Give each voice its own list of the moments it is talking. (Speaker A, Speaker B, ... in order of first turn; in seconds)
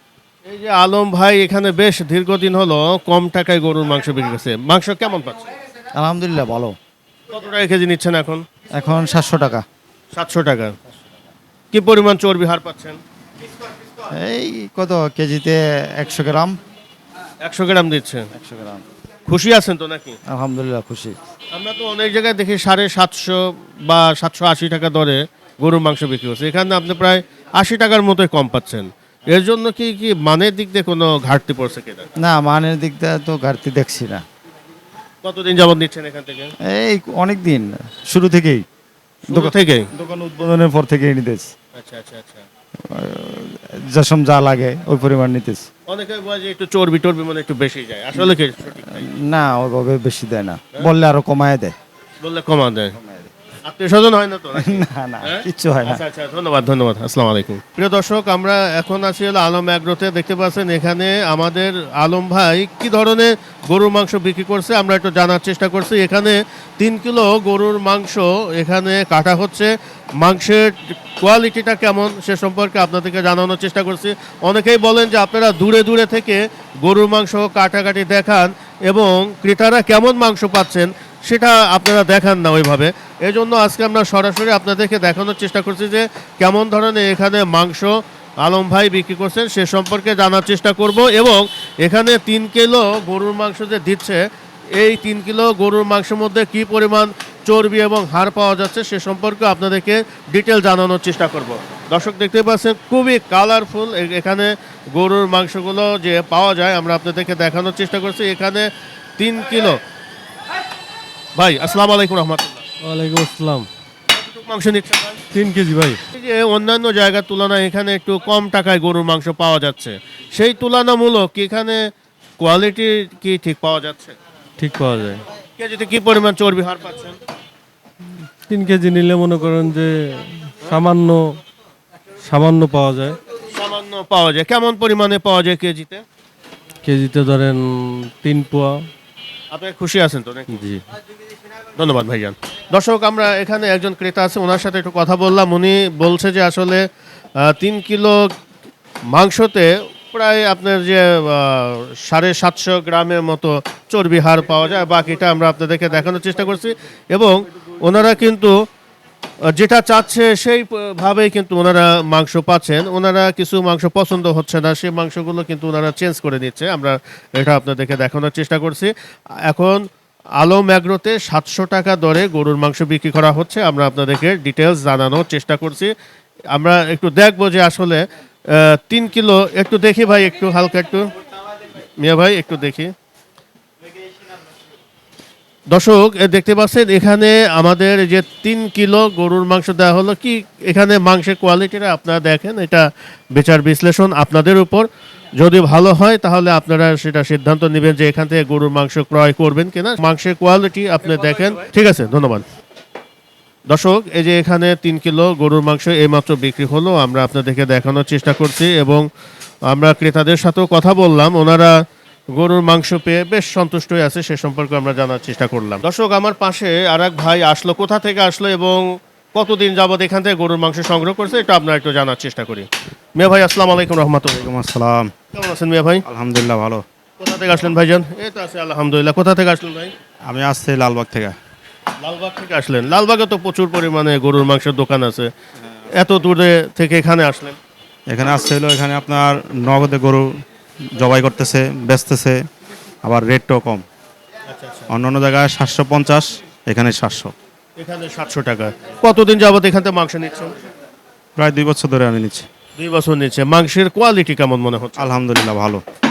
Speaker A: 0.5-5.4, 7.3-8.4, 10.1-10.7, 11.7-13.0, 17.4-18.3, 19.3-20.2, 21.5-32.1, 35.2-36.5, 39.3-39.9, 41.7-42.4, 45.9-49.0, 52.2-52.9, 53.6-94.2, 94.8-109.8, 111.3-112.6, 114.2-115.2, 116.1-121.9, 122.4-124.1, 125.6-127.2, 133.5-136.0, 139.5-140.7, 141.8-146.8, 147.4-148.3, 149.1-158.5, 159.5-168.9, 169.4-169.8, 170.4-175.9, 176.5-181.1, 182.0-182.9, 185.7-202.4, 203.7-209.1, 209.7-211.7, 212.3-224.5, 225.3-226.0, 227.2-229.9, 232.0-235.3, 235.9-237.6, 244.5-244.9, 247.8-250.5, 252.8-255.1
Speaker B: 5.9-6.8, 8.7-9.6, 14.1-16.6, 18.3-18.8, 20.3-21.2, 32.2-34.2, 36.7-38.6, 39.3-41.5, 42.9-45.7, 48.9-51.7, 53.0-53.3, 54.5-56.0
Speaker C: 112.8-113.7, 115.3-116.0, 124.6-125.2, 128.5-129.9, 130.6-131.3, 132.2-133.1, 136.8-138.8, 140.5-140.8
Speaker D: 224.3-225.1, 226.0-226.8, 230.2-231.3, 238.1-240.2, 240.9-242.4, 243.0-243.8, 244.9-247.3, 251.4-252.4, 255.0-255.8